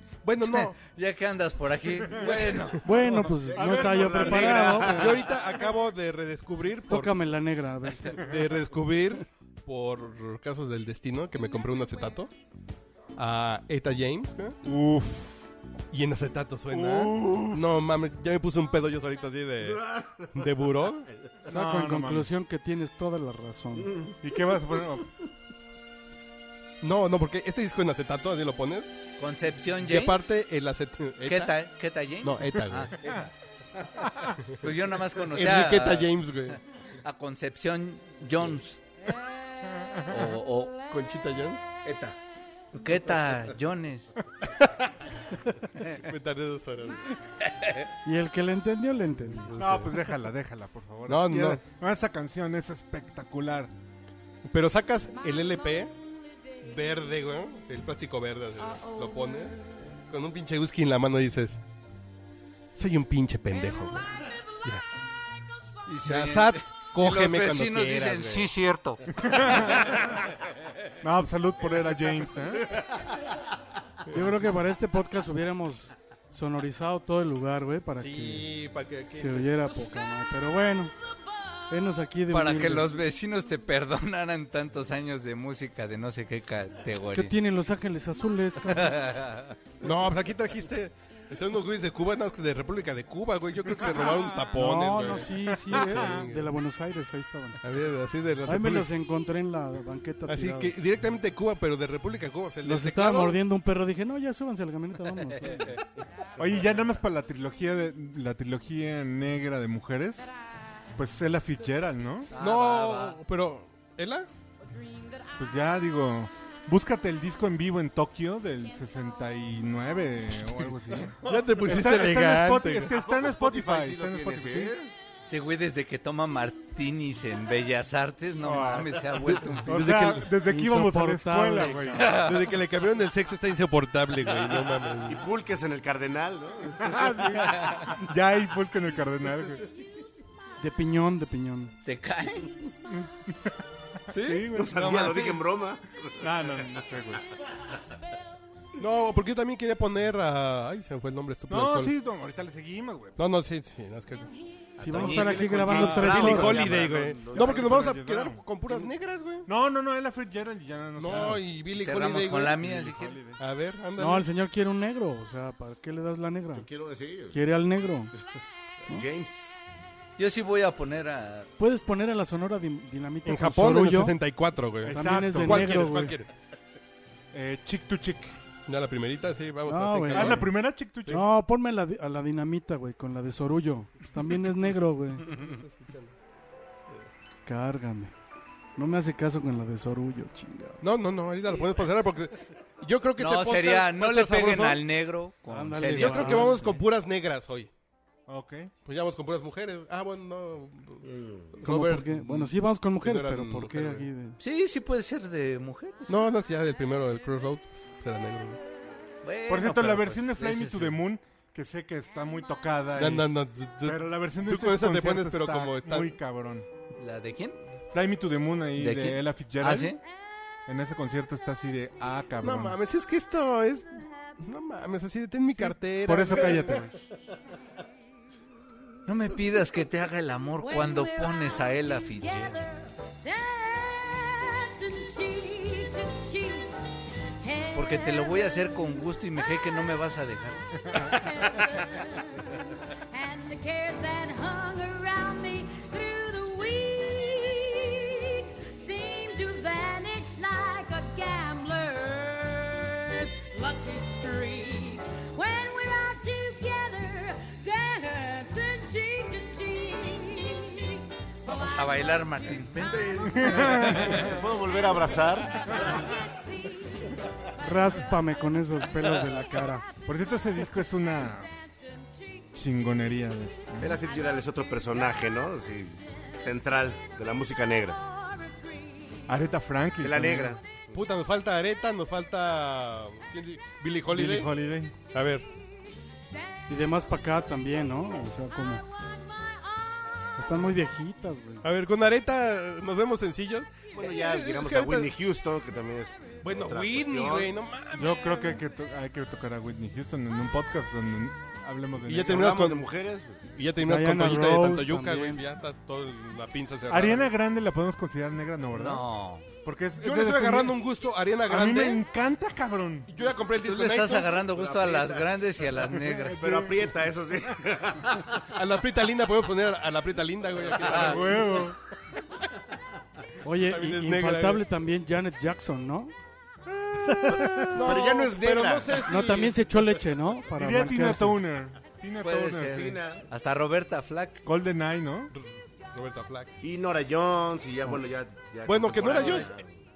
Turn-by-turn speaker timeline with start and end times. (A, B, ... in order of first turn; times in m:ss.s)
0:00.2-0:00.8 A
0:00.4-0:02.9 B
0:02.0-0:05.3 C
0:02.3-0:02.8 A
0:02.8-0:05.1 D
0:04.0-0:07.1 A
0:06.9-0:08.3 D
0:08.1-0:12.3 A
0:13.2-0:14.6 A
0:14.6-0:15.5 C
0:15.9-0:21.1 A
0:16.7-0:17.7 C
0:21.4-0:22.3 C
0:21.5-0:23.9 D
0:24.2-0:25.1 C
0:26.8-0:28.9 A
0:29.2-0:30.3 B
0:29.8-0:31.6 A
0:31.2-0:33.1 B
0:32.2-0:33.0 A
0:34.6-0:38.8 B
0:35.3-0:36.6 A
0:39.8-0:40.2 C
0:40.1-0:40.8 B
0:40.9-0:41.6 A
0:41.8-0:42.2 E
0:42.8-0:44.1 B
0:45.9-0:47.0 A
0:48.0-0:49.6 D
0:49.5-0:50.0 A
0:49.6-0:53.7 C
0:51.1-0:51.6 A
0:54.5-0:55.9 A
0:56.6-1:01.6 A
1:02.8-1:04.8 A
1:05.9-1:09.0 B
1:06.0-1:08.5 A
1:09.2-1:10.2 C
1:11.0-1:12.8 C
1:14.1-1:18.5 D
1:18.0-1:19.5 A
1:19.2-1:20.9 D
1:21.7-1:22.9 D
1:22.3-1:27.3 B
1:27.1-1:29.1 D
1:28.7-1:29.6 B
1:29.8-1:36.5 A
1:33.8-1:36.3 C
1:34.5-1:37.6 D
1:37.6-1:38.9 A
1:38.5-1:40.7 D
1:40.3-1:43.4 A
1:42.6-1:45.8 D
1:46.4-1:50.3 C
1:51.0-1:52.3 C
1:52.3-1:53.2 B
1:52.4-1:54.3 A
1:55.4-2:04.7 C
2:01.2-2:02.9 A
2:02.8-2:04.9 E
2:05.3-2:09.7 B
2:08.4-2:12.2 C
2:09.3-2:10.3 A
2:10.4-2:12.2 D
2:12.0-2:12.5 B
2:12.1-2:15.2 A
2:15.1-2:17.4 E
2:16.8-2:19.6 C
2:20.6-2:21.7 D
2:21.8-2:22.7 B
2:22.9-2:23.6 C
2:24.1-2:25.4 C
2:24.5-2:26.6 E
2:26.2-2:27.2 C
2:28.8-2:32.0 A
2:31.5-2:33.2 C
2:33.2-2:34.3 A
2:34.8-2:38.0 E
2:34.8-2:36.6 D
2:34.9-2:35.9 B
2:35.7-2:38.9 C
2:35.7-2:39.5 A
2:39.5-2:41.4 C
2:41.0-2:42.6 A
2:41.7-2:43.2 B
2:42.5-2:43.4 C
2:43.4-2:44.3 A
2:44.0-2:46.7 D
2:46.5-2:47.4 E
2:47.3-2:48.1 D
2:48.9-2:49.5 E
2:50.2-2:51.5 B
2:51.6-2:54.2 D
2:53.3-2:56.3 A
2:54.8-2:55.9 C
2:54.9-2:56.2 D
2:57.3-2:58.4 C
2:58.7-3:00.5 A
2:59.7-3:00.5 D
3:00.1-3:01.2 C
3:01.1-3:05.3 D
3:05.2-3:06.1 A
3:07.5-3:08.1 D
3:08.8-3:10.8 D
3:10.8-3:14.8 A
3:13.2-3:16.8 B
3:15.5-3:16.8 D
3:15.9-3:17.7 A
3:18.3-3:18.7 C
3:18.8-3:24.1 A
3:21.0-3:21.5 E
3:21.6-3:24.4 D
3:24.4-3:26.2 B
3:26.1-3:28.6 A
3:29.2-3:31.0 B
3:29.5-3:33.3 C
3:33.0-3:36.2 A
3:33.8-3:36.7 C
3:37.0-3:37.6 B
3:37.9-3:40.0 C
3:38.8-3:40.0 B
3:40.7-3:42.8 C
3:42.4-3:46.8 A
3:45.6-3:46.9 C
3:49.1-3:52.6 B
3:50.6-3:56.8 F
3:57.4-3:58.8 F
3:57.8-4:00.6 B
4:01.1-4:02.6 F
4:03.1-4:21.0 F
4:21.5-4:24.4 B
4:23.2-4:26.0 E
4:23.3-4:24.3 C
4:25.6-4:27.2 F
4:27.6-4:29.9 D
4:30.1-4:31.5 C
4:32.6-4:34.0 C
4:33.8-4:38.0 E
4:38.5-4:38.9 F
4:39.3-4:40.6 C
4:40.0-4:41.0 E
4:40.9-4:44.5 A
4:44.1-4:44.9 C
4:45.1-4:45.5 A
4:46.7-4:48.8 D
4:50.4-4:51.6 D
4:51.6-4:55.1 A
4:53.9-4:57.5 E
4:56.4-4:58.6 A
4:58.0-5:02.6 C
5:02.1-5:02.9 A
5:02.2-5:03.4 E
5:03.6-5:07.3 A
5:03.8-5:05.4 D
5:06.9-5:09.1 C
5:08.7-5:09.5 B
5:09.6-5:10.8 C
5:10.0-5:12.0 A
5:11.5-5:13.1 C
5:13.1-5:14.4 A
5:13.6-5:16.5 B
5:14.5-5:15.4 E
5:16.1-5:17.0 C
5:16.3-5:18.5 E
5:18.5-5:21.7 A
5:20.9-5:21.1 B
5:20.9-5:21.8 C
5:23.4-5:26.1 D
5:23.6-5:24.6 A
5:26.7-5:28.0 C
5:27.1-5:27.5 D
5:27.5-5:29.2 E
5:27.7-5:29.6 A
5:29.1-5:31.4 D
5:30.5-5:32.9 C
5:32.2-5:34.4 B
5:32.7-5:33.3 E
5:34.4-5:35.3 C
5:35.3-5:36.5 A
5:36.6-5:39.8 E
5:38.7-5:39.6 A